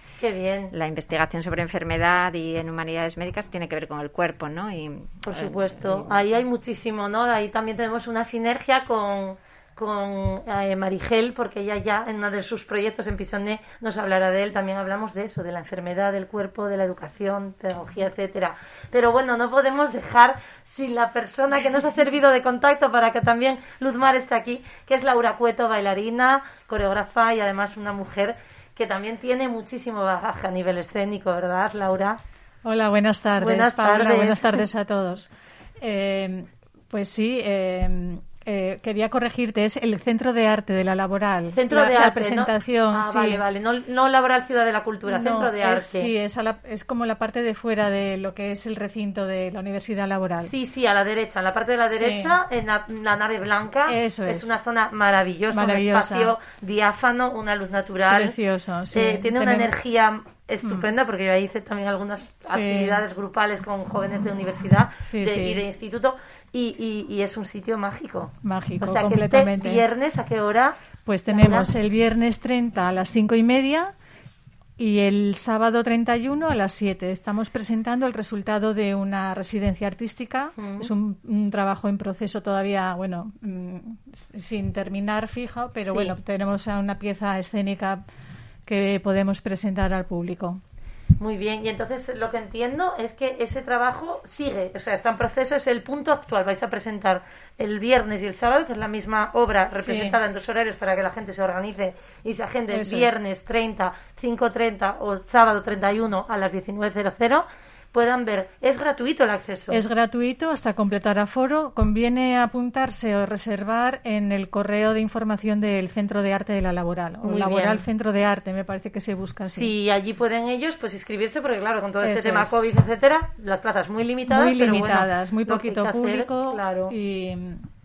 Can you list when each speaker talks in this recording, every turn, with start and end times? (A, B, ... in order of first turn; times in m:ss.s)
0:00.2-0:00.7 A
0:00.7-0:06.2 B
0:05.2-0:32.2 A
0:32.6-0:43.4 C
0:33.4-0:34.6 A
0:41.5-0:46.1 A
0:45.0-0:50.5 C
0:50.4-0:58.4 A
0:51.9-0:52.4 C
0:53.9-0:54.6 C
0:55.5-0:56.4 C
0:58.1-0:59.7 C
0:58.9-1:10.8 A
1:00.6-1:00.9 C
1:02.5-1:03.0 C
1:05.0-1:05.6 C
1:08.4-1:09.8 C
1:11.1-1:13.9 C
1:11.3-1:11.7 A
1:14.8-1:28.0 C
1:20.6-1:20.9 A
1:25.8-1:26.2 A
1:28.7-1:30.6 C
1:31.2-1:49.8 A
1:39.8-1:40.2 C
1:42.7-1:43.1 C
1:49.7-1:59.7 C
1:57.2-1:57.8 A
1:59.5-2:07.0 A
2:02.0-2:02.6 C
2:04.3-2:07.7 C